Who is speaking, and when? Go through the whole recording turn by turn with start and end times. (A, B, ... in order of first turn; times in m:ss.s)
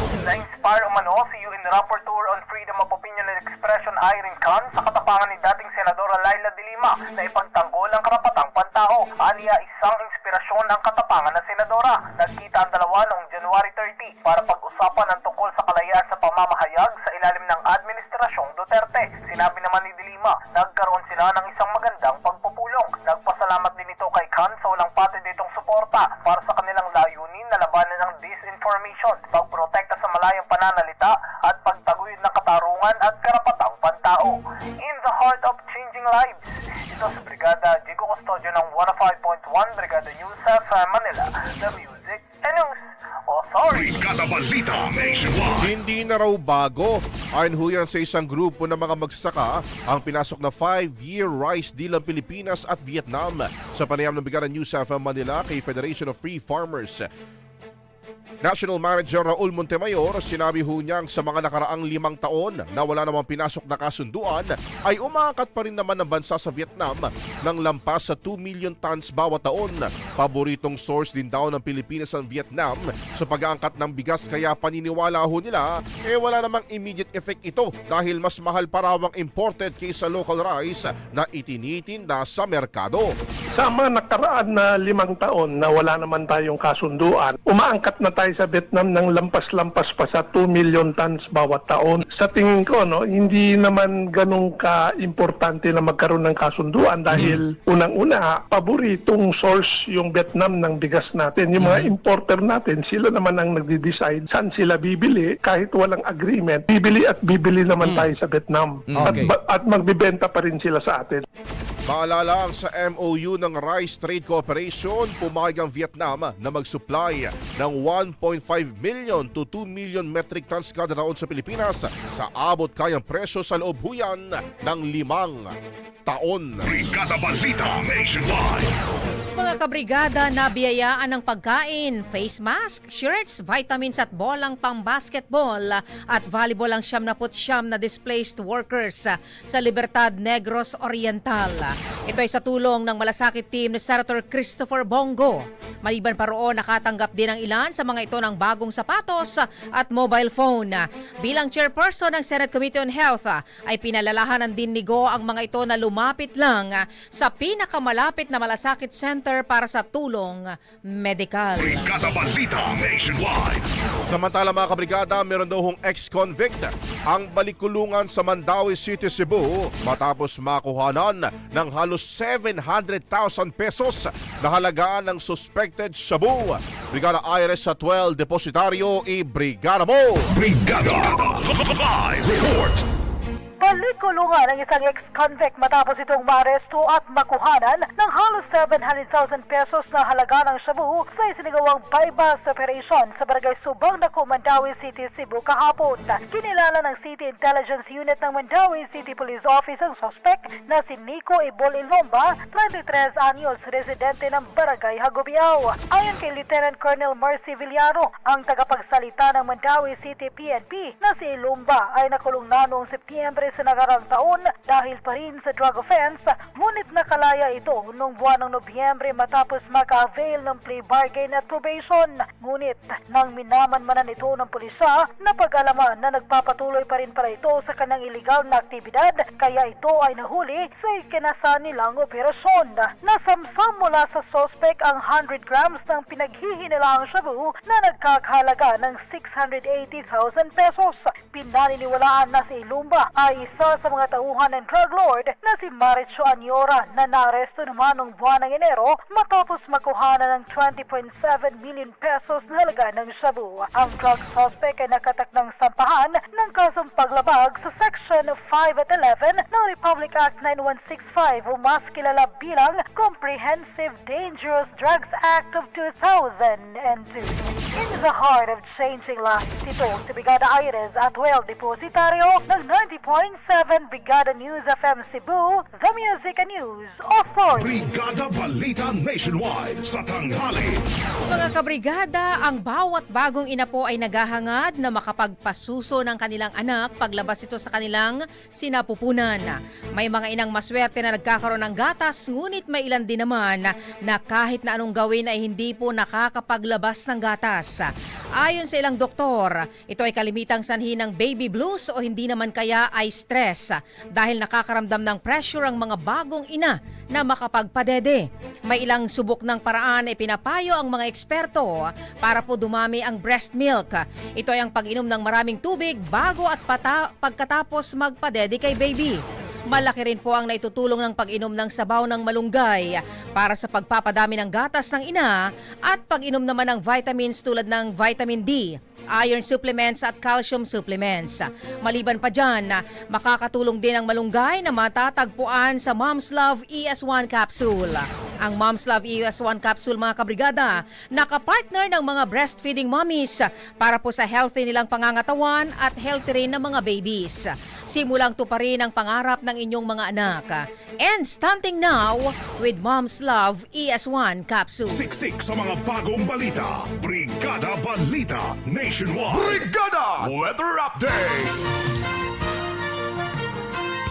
0:00.2-0:44.0 A
0:43.7-0:45.7 B
0:45.6-0:57.0 C
0:58.4-1:23.1 C
1:23.6-1:51.2 D
1:51.9-2:05.5 C
2:06.1-2:06.8 C
2:06.7-2:08.7 B
2:09.3-2:41.9 E
2:41.8-2:43.6 B
2:44.1-3:00.4 C
3:00.3-3:02.8 B
3:03.6-4:37.8 F
4:37.6-4:40.8 B
4:41.3-5:55.0 E
5:54.9-6:01.5 B